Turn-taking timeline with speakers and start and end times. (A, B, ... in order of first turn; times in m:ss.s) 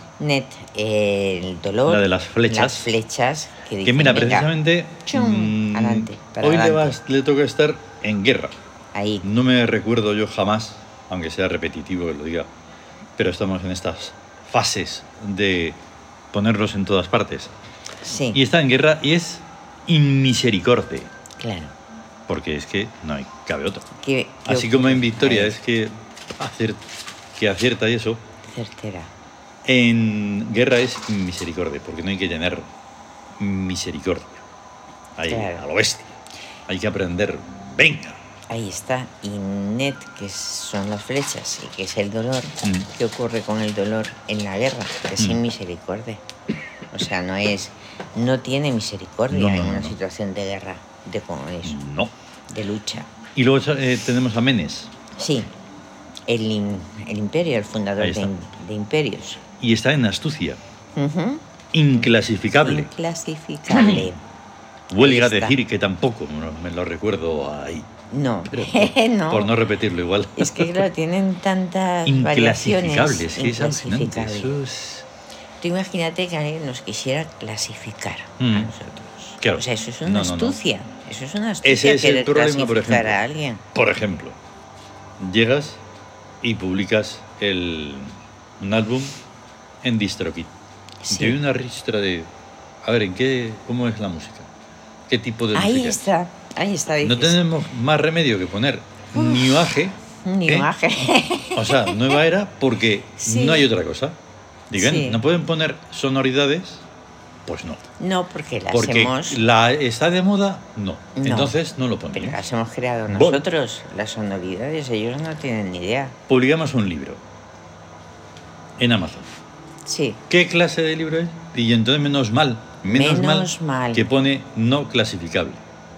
0:00.2-0:04.5 A
0:01.9-0:02.9 B
0:03.8-0:08.5 B
0:05.1-0:07.0 A
0:08.9-0:09.2 A
0:09.2-0:12.5 B
0:13.2-0:15.8 B
0:16.3-0:17.5 B
0:18.0-0:18.4 A
0:18.3-0:21.1 B
0:21.4-0:21.7 A
0:22.3-0:23.9 B
0:24.0-0:25.6 A
0:24.5-0:26.8 B
0:27.4-0:28.2 B
0:28.4-0:29.1 A
0:29.6-0:32.7 B
0:33.4-0:34.4 B
0:35.2-0:36.1 B
0:35.3-0:35.6 A
0:36.7-0:38.2 B
0:38.5-0:46.2 A
0:46.9-0:51.8 A
0:49.3-0:50.0 B
0:51.6-0:52.1 B
0:52.5-0:53.1 A
0:53.4-0:54.9 B
0:55.2-0:55.5 A
0:56.3-0:59.4 A
0:58.0-0:58.3 B
0:59.6-1:00.6 B
1:01.0-1:01.4 A
1:01.7-1:02.9 B
1:02.0-1:04.2 A
1:03.7-1:04.0 B
1:04.9-1:07.9 B
1:05.0-1:05.6 A
1:08.1-1:09.5 A
1:08.5-1:10.9 B
1:10.4-1:14.5 A
1:12.1-1:15.1 B
1:15.6-1:23.6 A
1:18.4-1:18.7 B
1:19.4-1:20.6 B
1:21.6-1:23.2 B
1:23.7-1:24.4 B
1:25.2-1:25.8 B
1:26.4-1:29.2 B
1:29.8-1:30.5 B
1:31.0-1:31.4 A
1:31.1-1:32.3 B
1:32.8-1:34.5 B
1:35.1-1:36.0 B
1:35.5-1:37.4 A
1:37.0-1:40.7 B
1:39.1-1:39.6 A
1:40.2-1:42.0 A
1:41.6-1:44.2 B
1:43.2-1:43.6 A
1:44.7-1:46.9 B
1:44.8-1:45.2 A
1:47.4-1:47.8 B
1:48.0-1:49.4 A
1:48.7-1:52.4 B
1:51.2-1:51.6 A
1:52.1-1:56.2 A
1:53.1-1:53.4 B
1:56.3-1:57.2 B
1:58.8-1:59.3 B
1:59.9-2:00.2 A
2:00.3-2:05.6 B
2:02.9-2:04.0 A